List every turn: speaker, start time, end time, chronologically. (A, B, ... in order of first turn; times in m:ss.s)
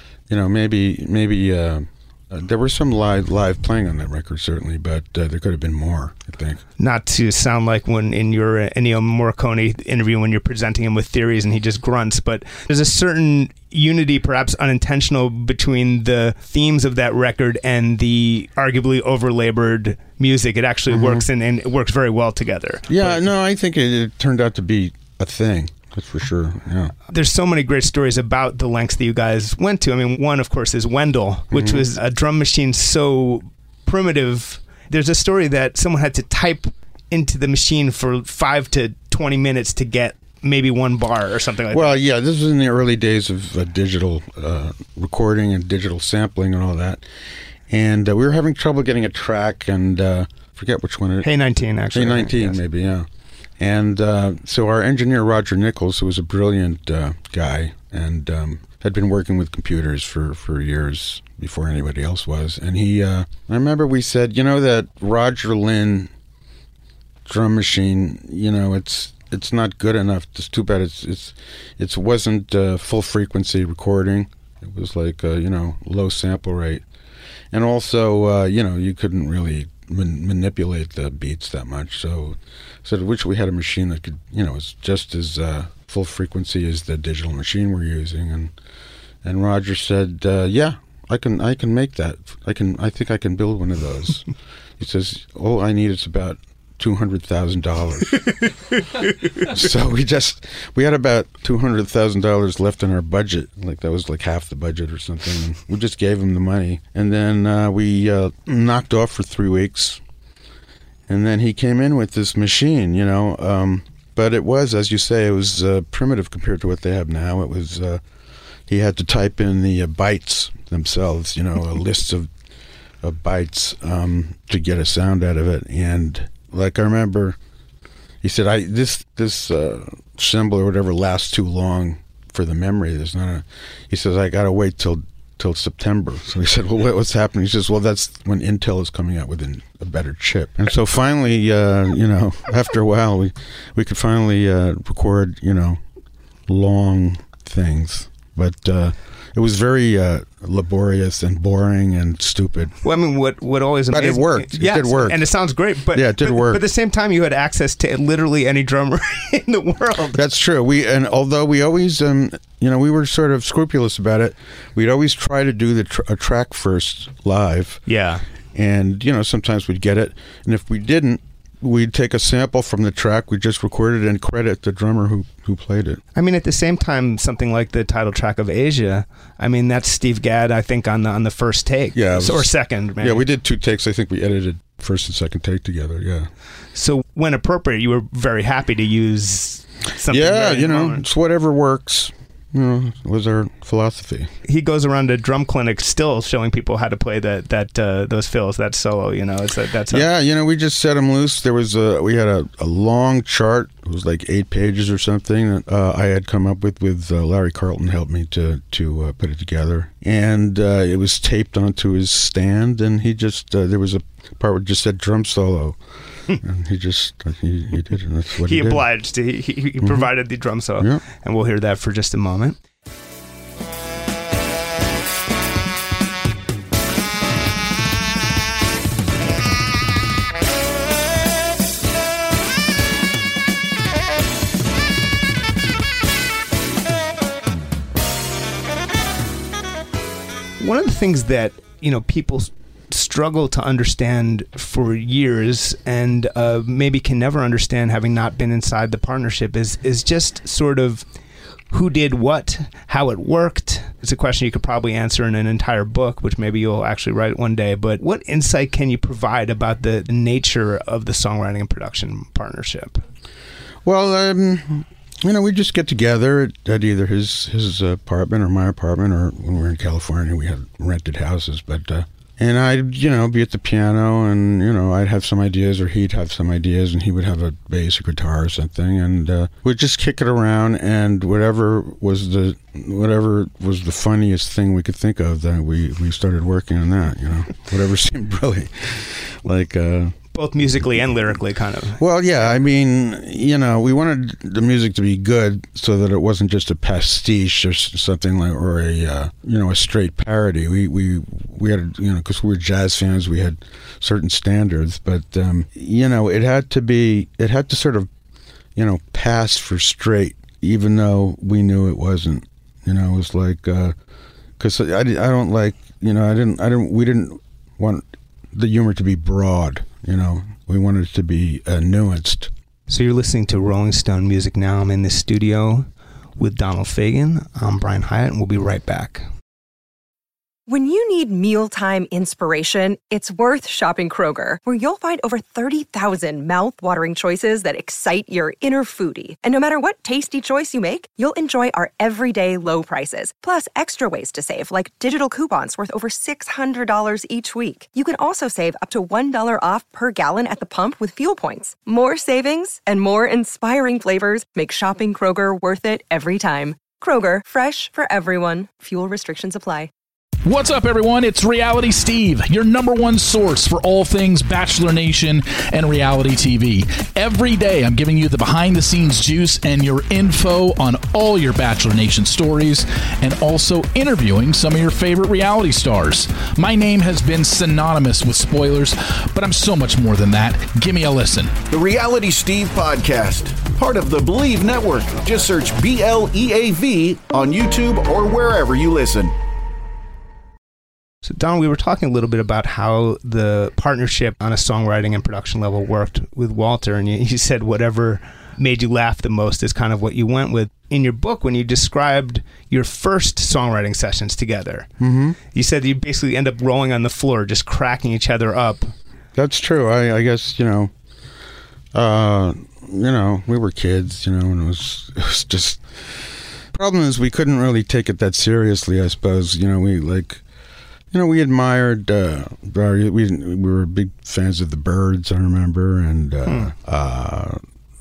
0:00.3-0:06.6 A
0:06.8-0:23.2 B
0:20.9-0:21.2 A
0:22.9-0:26.9 A
0:27.1-0:42.0 B
0:31.5-0:31.8 A
0:41.7-0:47.0 A
0:47.7-0:51.3 A
0:51.2-0:52.6 B
0:51.9-0:53.1 A
0:53.6-1:06.1 A
1:07.2-1:16.8 A
1:17.5-1:28.5 A
1:29.2-1:38.4 A
1:39.3-1:50.0 A
1:51.1-1:58.0 A
1:58.7-2:02.3 A
2:03.0-2:07.4 A
2:08.2-2:25.8 A
2:26.5-2:32.8 A
2:32.8-2:40.2 B
2:33.9-2:35.3 A
2:35.9-2:36.6 A
2:40.1-2:47.8 A
2:47.9-2:48.2 B
2:48.5-2:56.0 A
2:56.1-3:03.2 B
3:01.9-3:06.3 A
3:06.7-3:11.0 B
3:10.1-3:14.3 A
3:14.4-3:20.0 B
3:19.9-3:38.8 A
3:38.4-3:42.6 B
3:39.8-3:40.1 A
4:00.6-4:11.0 B
4:11.7-4:23.0 B
4:23.8-4:50.2 A
4:50.3-4:52.0 B
4:52.0-5:08.1 A
5:08.8-5:13.9 A
5:14.6-5:22.5 A
5:22.9-5:29.2 B
5:30.7-5:59.9 C
6:00.4-6:21.5 D
6:21.7-6:29.3 E
6:31.2-6:44.9 B
6:45.0-6:45.4 A
6:45.5-6:48.9 B
6:49.3-6:50.9 A
6:51.9-7:00.4 A
7:01.1-7:07.6 A
7:06.4-7:06.7 B